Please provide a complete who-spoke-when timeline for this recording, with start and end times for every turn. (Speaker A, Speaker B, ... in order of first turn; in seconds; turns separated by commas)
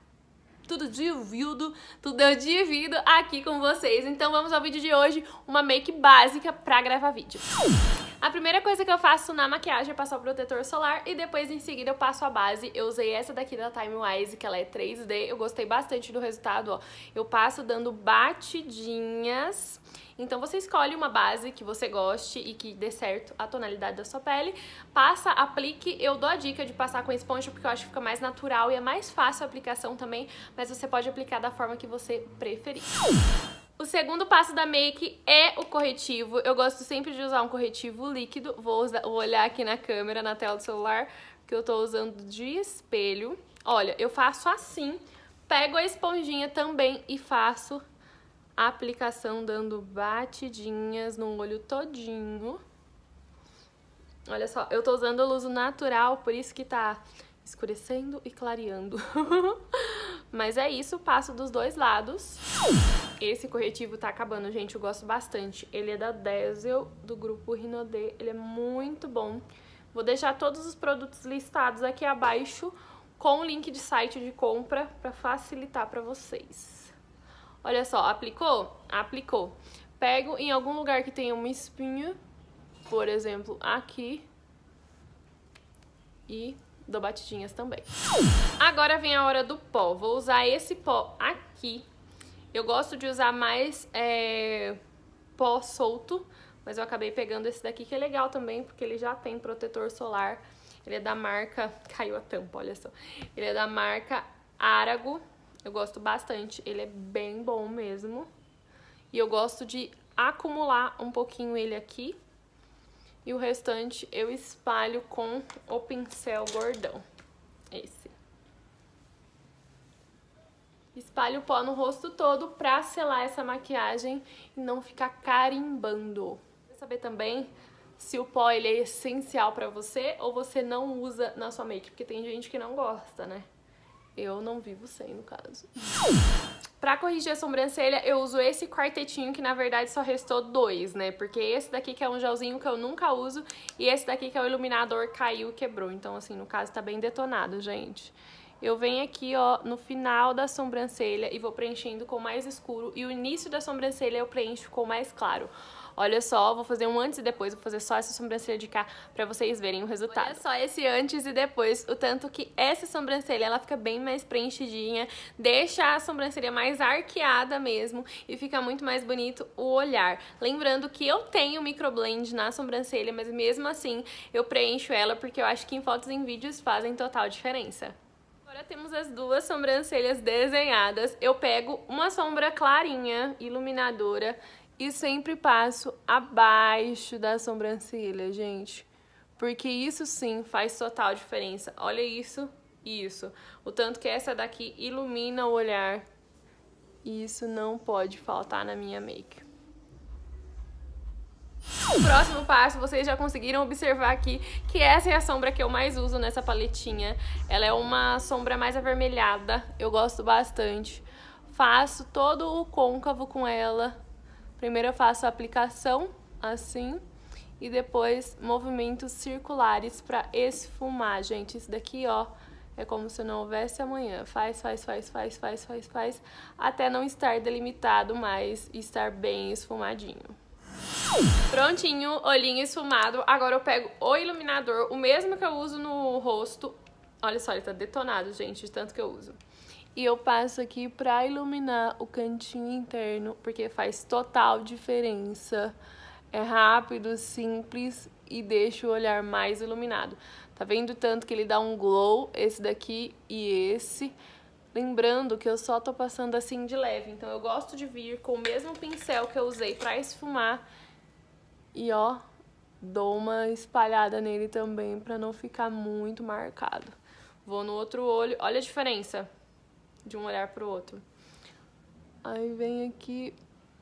Speaker A: 0.7-7.5, Speaker A: 8.2-33.0, Speaker A: 33.8-47.8, Speaker A: 48.6-52.6, Speaker A: 54.3-62.4, Speaker A: 63.2-76.9, Speaker A: 77.6-82.2, Speaker A: 82.9-84.2, Speaker A: 86.3-87.9, Speaker A: 88.6-91.8, Speaker A: 92.5-94.8, Speaker A: 95.3-108.3, Speaker A: 109.1-112.2, Speaker A: 113.2-117.0, Speaker A: 117.7-118.1, Speaker A: 120.9-133.4, Speaker A: 134.2-135.9, Speaker A: 136.8-177.9, Speaker A: 178.4-196.1, Speaker A: 197.0-199.4, Speaker A: 202.0-214.0, Speaker A: 214.6-217.0, Speaker A: 217.6-230.3, Speaker A: 231.5-239.4, Speaker A: 239.9-245.7, Speaker A: 246.3-254.1, Speaker A: 254.7-260.6, Speaker A: 261.7-262.2, Speaker A: 262.8-269.3, Speaker A: 270.0-271.0, Speaker A: 272.2-273.4